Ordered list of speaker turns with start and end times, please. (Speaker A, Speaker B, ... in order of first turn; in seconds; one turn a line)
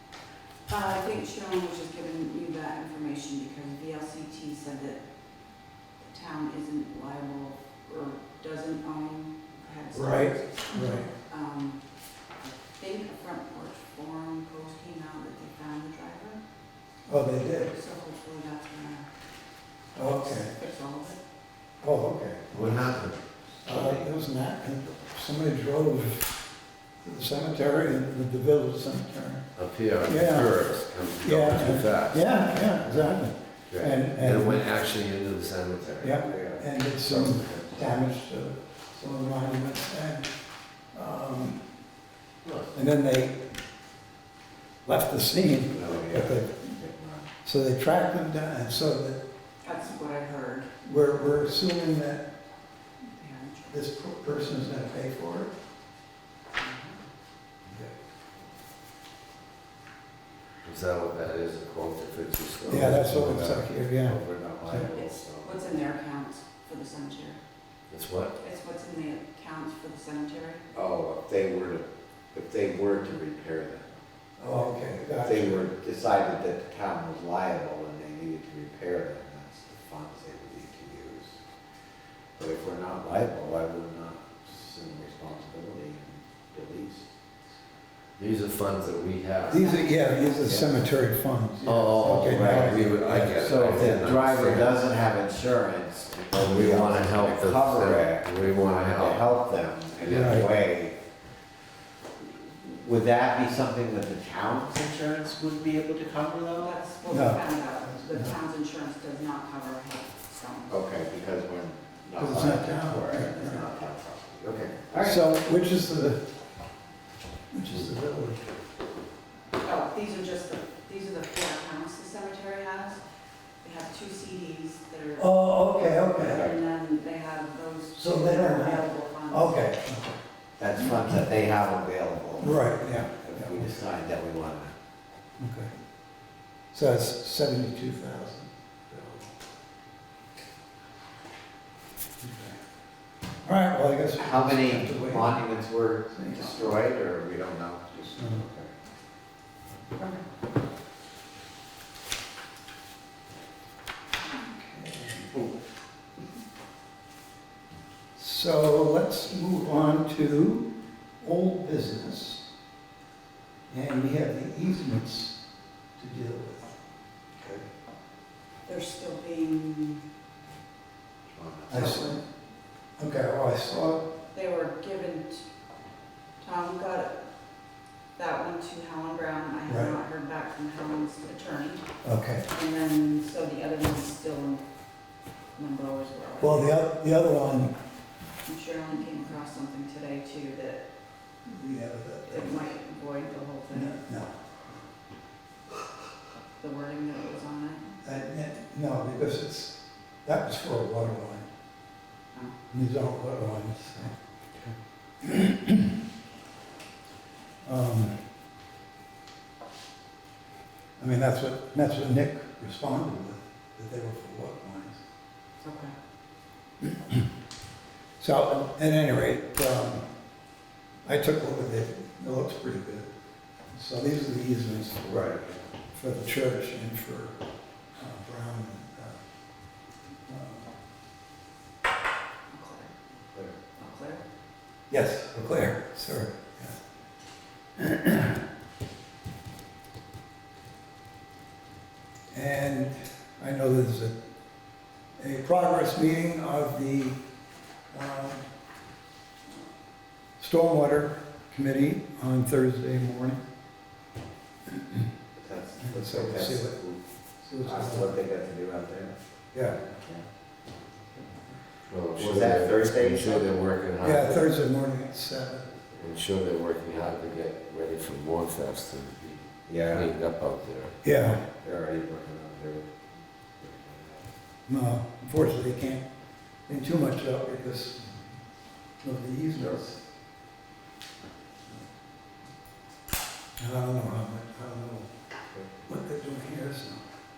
Speaker A: 0.7-5.0
Speaker A: 6.0-11.8
Speaker B: 9.9-11.1
Speaker A: 12.4-16.4
Speaker B: 17.1-17.7
Speaker A: 17.4-19.1
Speaker B: 19.9-20.5
Speaker A: 20.0-21.2
Speaker B: 21.8-22.5
Speaker C: 22.5-23.1
Speaker D: 22.5-23.1
Speaker C: 23.6-24.1
Speaker B: 23.6-26.3
Speaker B: 27.0-29.5
Speaker D: 29.6-32.2
Speaker B: 30.0-30.5
Speaker B: 31.2-34.7
Speaker D: 33.7-36.2
Speaker B: 36.0-40.3
Speaker C: 36.2-37.5
Speaker B: 40.9-41.7
Speaker D: 42.4-42.7
Speaker B: 42.7-43.5
Speaker B: 44.8-46.7
Speaker C: 45.7-47.3
Speaker B: 47.4-49.2
Speaker A: 49.6-50.7
Speaker B: 50.8-52.3
Speaker A: 53.1-53.8
Speaker B: 53.7-55.5
Speaker A: 56.5-57.0
Speaker D: 60.6-63.7
Speaker B: 62.7-64.8
Speaker C: 64.0-65.6
Speaker A: 64.8-67.4
Speaker D: 67.9-68.3
Speaker A: 68.4-70.6
Speaker C: 70.7-73.9
Speaker B: 74.4-75.7
Speaker C: 75.2-81.4
Speaker C: 82.4-87.1
Speaker D: 88.2-89.7
Speaker A: 89.4-90.5
Speaker B: 89.5-93.4
Speaker C: 90.5-90.8
Speaker C: 91.6-101.0
Speaker D: 91.6-94.8
Speaker D: 96.3-99.2
Speaker D: 100.0-100.3
Speaker B: 100.1-100.5
Speaker C: 102.2-106.7
Speaker A: 106.6-110.8
Speaker B: 107.1-108.4
Speaker C: 110.7-115.2
Speaker B: 112.2-113.6
Speaker B: 115.0-116.2
Speaker B: 117.5-118.5
Speaker A: 119.6-123.0
Speaker A: 123.6-125.3
Speaker B: 125.2-126.5
Speaker C: 126.2-126.5
Speaker A: 126.2-129.6
Speaker B: 128.0-130.2
Speaker C: 130.6-134.7
Speaker B: 132.4-133.6
Speaker B: 135.4-135.7
Speaker B: 136.7-139.3
Speaker B: 142.2-142.6
Speaker B: 143.4-145.4
Speaker C: 144.2-148.7
Speaker B: 146.1-146.6
Speaker B: 148.2-148.4
Speaker B: 154.4-155.5
Speaker B: 158.2-160.7
Speaker B: 161.2-162.4
Speaker B: 163.7-165.4
Speaker B: 166.0-166.8
Speaker A: 168.7-170.0
Speaker C: 171.3-172.0
Speaker B: 171.7-172.2
Speaker A: 171.7-172.2
Speaker B: 173.0-174.1
Speaker A: 174.3-175.5
Speaker A: 176.4-177.2
Speaker A: 178.2-181.8
Speaker B: 179.7-179.9
Speaker B: 182.0-182.4
Speaker A: 182.5-184.6
Speaker A: 185.6-186.8
Speaker B: 186.4-187.7
Speaker A: 188.4-190.8
Speaker B: 191.4-192.7
Speaker A: 192.3-194.0
Speaker B: 193.7-194.3
Speaker A: 196.6-197.9
Speaker B: 198.0-201.5
Speaker B: 202.7-204.2
Speaker B: 205.2-205.9
Speaker B: 207.6-208.3
Speaker B: 211.0-215.0
Speaker A: 215.6-215.9
Speaker B: 216.8-217.3
Speaker B: 218.2-220.1
Speaker B: 221.1-223.1
Speaker B: 223.7-225.3
Speaker C: 225.1-225.6
Speaker B: 225.9-227.4
Speaker B: 228.0-229.2
Speaker B: 230.3-230.7
Speaker A: 232.5-232.9
Speaker A: 233.8-234.2
Speaker B: 234.9-236.8
Speaker B: 237.8-238.4
Speaker B: 242.3-244.2
Speaker B: 245.2-247.2
Speaker B: 247.9-248.5
Speaker B: 250.4-253.4
Speaker C: 255.3-257.0
Speaker B: 255.8-256.8
Speaker B: 257.4-258.2
Speaker C: 257.6-259.2
Speaker B: 259.5-259.8
Speaker C: 260.0-260.2
Speaker D: 261.9-264.4
Speaker C: 262.2-263.5
Speaker B: 264.0-265.7
Speaker D: 266.0-270.9
Speaker C: 269.7-270.1
Speaker B: 271.0-271.4
Speaker C: 271.5-272.9
Speaker C: 273.6-274.2
Speaker B: 274.7-276.1
Speaker B: 276.7-278.0
Speaker B: 279.0-280.0
Speaker C: 279.5-279.8
Speaker B: 283.6-285.1
Speaker B: 285.9-287.1